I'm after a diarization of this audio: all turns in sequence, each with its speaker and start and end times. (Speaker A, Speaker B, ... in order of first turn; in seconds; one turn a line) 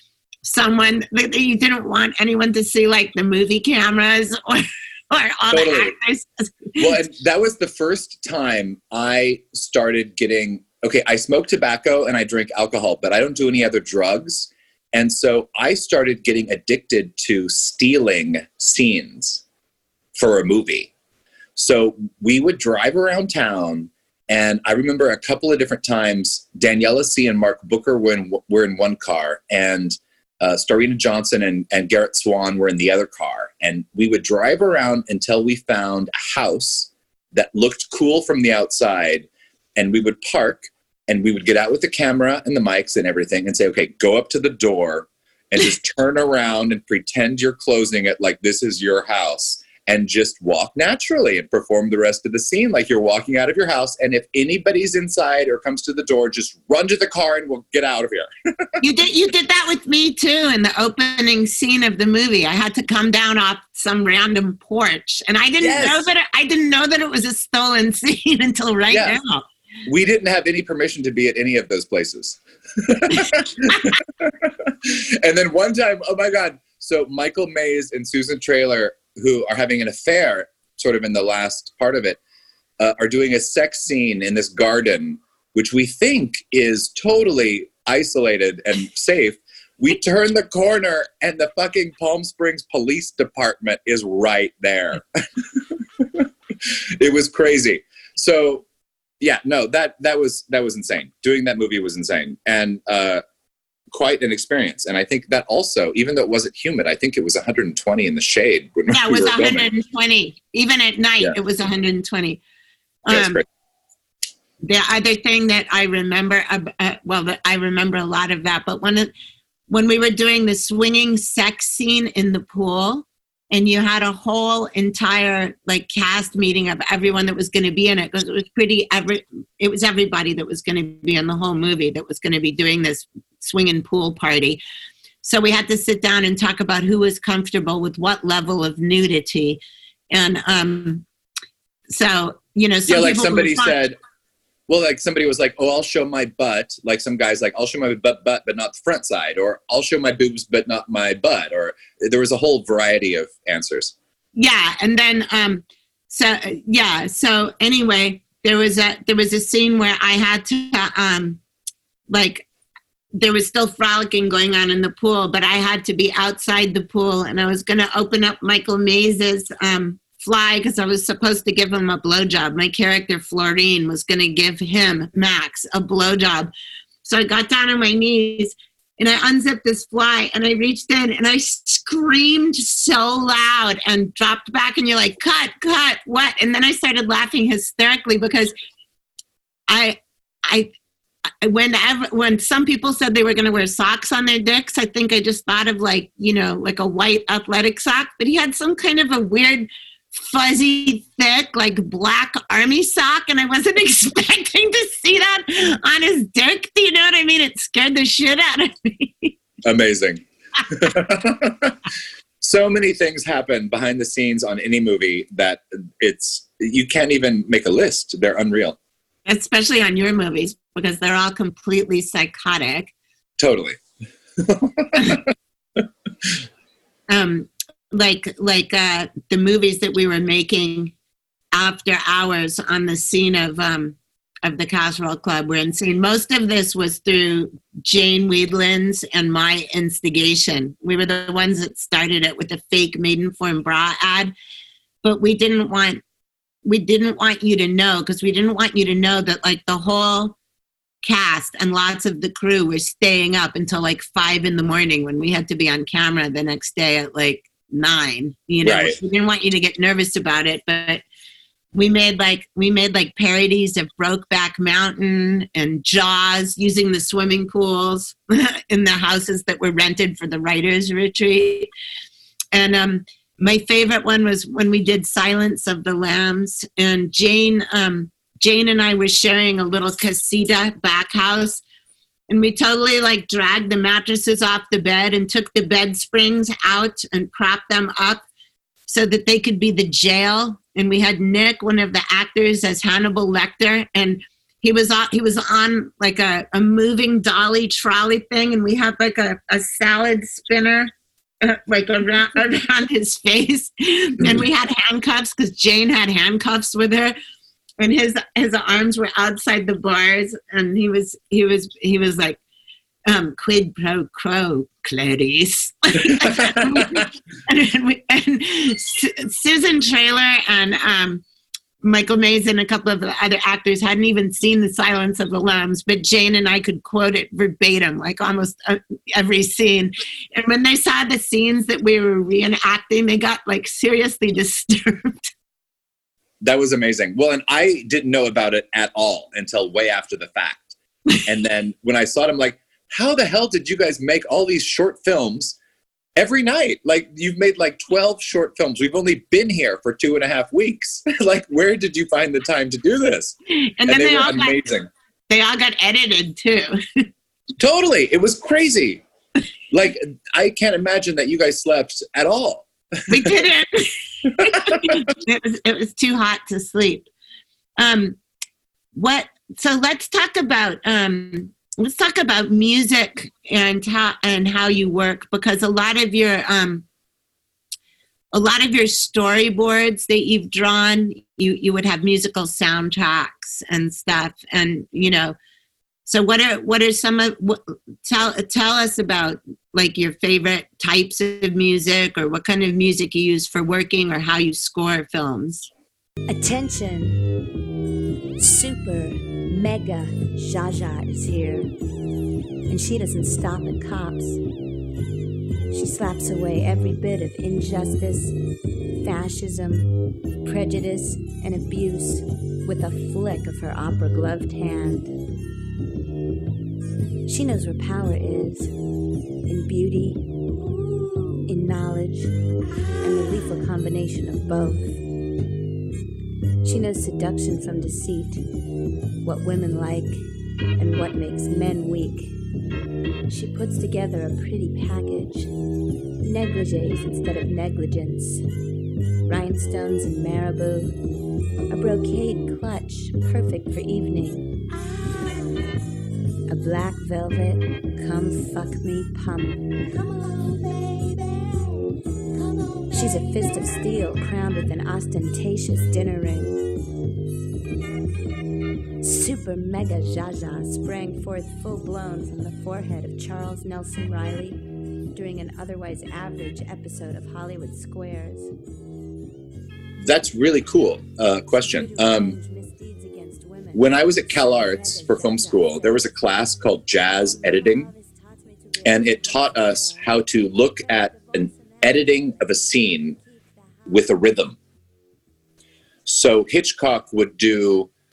Speaker A: 0.5-7.0
Speaker B: 5.5-5.9
Speaker B: 6.8-19.4
Speaker B: 20.2-20.9
Speaker B: 21.6-58.7
Speaker A: 58.8-69.4
Speaker B: 65.6-66.1
Speaker B: 68.9-69.2
Speaker B: 69.8-82.2
Speaker B: 82.8-96.3
Speaker B: 97.0-98.7
Speaker B: 99.2-103.2
Speaker B: 103.9-109.7
Speaker A: 108.9-112.4
Speaker A: 113.0-113.4
Speaker B: 113.1-113.5
Speaker A: 114.6-119.1
Speaker A: 119.7-134.6
Speaker A: 135.2-139.6
Speaker A: 140.1-141.0
Speaker A: 141.9-143.8
Speaker B: 142.9-144.0
Speaker B: 144.7-153.9
Speaker A: 154.4-161.4
Speaker A: 162.1-162.5
Speaker A: 163.2-176.5
Speaker A: 177.0-188.5
Speaker A: 189.7-190.7
Speaker A: 191.4-209.3
Speaker B: 209.7-211.8
Speaker B: 212.4-218.8
Speaker A: 219.3-222.9
Speaker B: 223.4-223.8
Speaker B: 224.4-225.3
Speaker A: 227.1-230.9
Speaker A: 231.5-244.3
Speaker A: 245.0-246.0
Speaker A: 246.7-250.4
Speaker A: 251.0-261.0
Speaker B: 258.6-259.0
Speaker A: 261.8-271.7
Speaker A: 272.5-281.6
Speaker A: 282.3-288.2
Speaker A: 288.9-300.9
Speaker A: 301.4-307.1
Speaker A: 307.8-312.4
Speaker A: 313.1-321.2
Speaker B: 316.5-317.0
Speaker A: 321.8-335.3
Speaker B: 336.4-345.6
Speaker B: 346.2-354.9
Speaker A: 353.6-354.6
Speaker A: 355.3-357.1
Speaker B: 357.6-359.0
Speaker B: 359.7-362.7
Speaker A: 363.1-367.1
Speaker B: 364.7-365.0
Speaker A: 367.8-368.2
Speaker A: 368.9-376.9
Speaker A: 378.3-385.4
Speaker A: 386.1-395.7
Speaker C: 396.3-397.2
Speaker C: 398.4-401.7
Speaker C: 402.7-404.4
Speaker C: 405.7-408.4
Speaker C: 409.0-409.9
Speaker C: 410.4-415.1
Speaker C: 417.3-418.7
Speaker C: 419.5-422.4
Speaker C: 423.0-424.9
Speaker C: 426.6-428.4
Speaker C: 429.2-430.3
Speaker C: 430.8-432.4
Speaker C: 433.3-435.5
Speaker C: 436.2-438.5
Speaker C: 439.3-440.9
Speaker C: 441.7-445.3
Speaker C: 446.5-451.7
Speaker C: 452.9-456.6
Speaker C: 459.0-464.6
Speaker C: 465.1-468.5
Speaker B: 470.0-472.4
Speaker C: 471.6-476.2
Speaker B: 473.7-477.9
Speaker C: 477.0-482.4
Speaker B: 478.8-483.2
Speaker C: 483.2-484.2
Speaker B: 483.9-484.6
Speaker B: 486.1-487.9